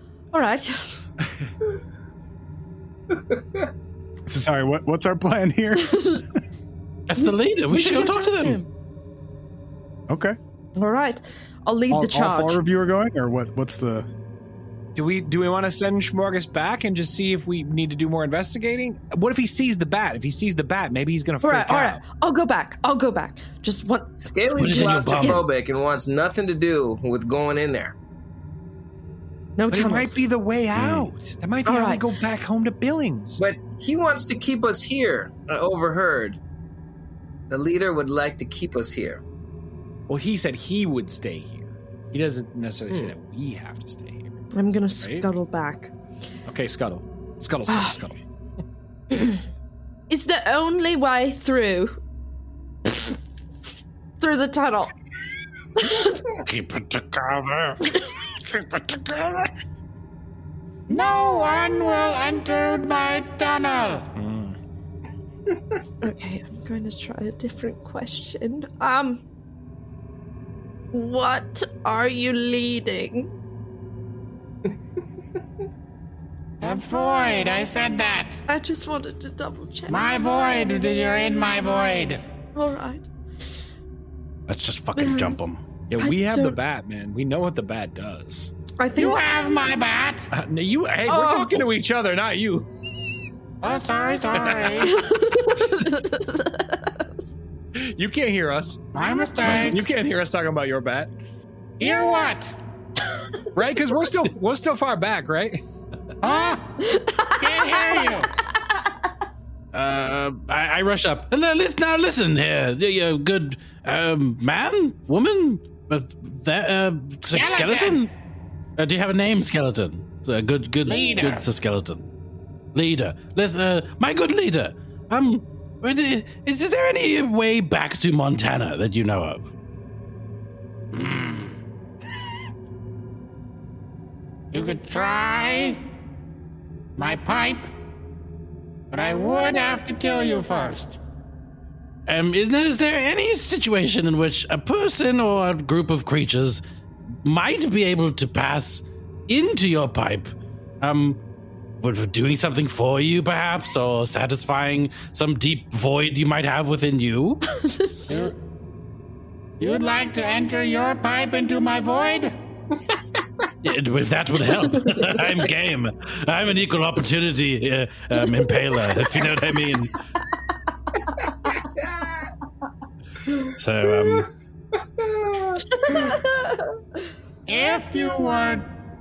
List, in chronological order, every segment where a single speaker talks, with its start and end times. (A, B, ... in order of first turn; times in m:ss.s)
0:00.3-0:01.0 A
0:04.2-0:06.2 B
0:05.8-0:06.2 A
0:07.1-0:08.6 C
0:07.2-0:08.7 A
0:10.1-0:10.4 B
0:10.8-0:12.6 A
0:11.9-0:14.1 B
0:14.9-0:22.0 D
0:21.4-0:25.4 A
0:24.2-0:28.0 E
0:24.6-0:25.5 C
0:29.6-0:30.2 A
0:29.7-0:33.4 D
0:30.7-0:31.1 C
0:31.6-0:32.0 A
0:33.4-0:36.4 E
0:37.5-0:39.2 E
0:40.1-0:44.4 D
0:44.5-0:45.9 A
0:45.0-0:45.3 D
0:46.5-0:48.2 D
0:47.7-0:48.0 A
0:49.1-0:49.4 A
0:50.1-0:52.0 A
0:54.2-0:54.9 A
0:55.8-0:56.1 A
0:56.3-0:59.5 C
1:00.9-1:04.1 F
1:04.2-1:04.6 D
1:06.0-1:09.2 A
1:10.9-1:13.3 A
1:16.6-1:18.4 F
1:18.5-1:20.0 A
1:19.9-1:22.2 F
1:22.5-1:23.1 A
1:24.5-1:25.6 C
1:25.0-1:25.4 A
1:25.9-1:28.5 D
1:26.0-1:26.6 A
1:28.8-1:29.2 A
1:28.9-1:30.3 F
1:30.3-1:32.7 D
1:31.0-1:31.6 A
1:33.6-1:35.0 F
1:34.4-1:34.7 D
1:34.8-1:36.9 A
1:37.7-1:38.9 D
1:38.9-1:39.8 F
1:39.4-1:41.1 D
1:41.8-1:42.6 F
1:43.5-1:45.6 D
1:46.2-1:46.7 F
1:46.8-1:48.1 A
1:47.3-1:48.3 F
1:49.7-1:58.1 C
1:57.3-1:58.0 F
1:58.8-2:02.1 C
2:00.8-2:01.5 F
2:02.7-2:09.5 C
2:10.9-2:11.5 F
2:14.5-2:15.8 F
2:17.0-2:17.7 F
2:18.9-2:21.0 F
2:22.1-2:26.6 C
2:27.2-2:31.2 C
2:31.8-2:37.5 C
2:37.6-2:37.9 A
2:38.1-2:38.3 F
2:39.6-2:42.3 F
2:43.6-2:50.0 C
2:51.6-2:52.3 E
2:53.6-2:54.3 C
2:54.8-2:56.2 E
2:55.8-2:56.7 A
2:57.5-2:58.7 F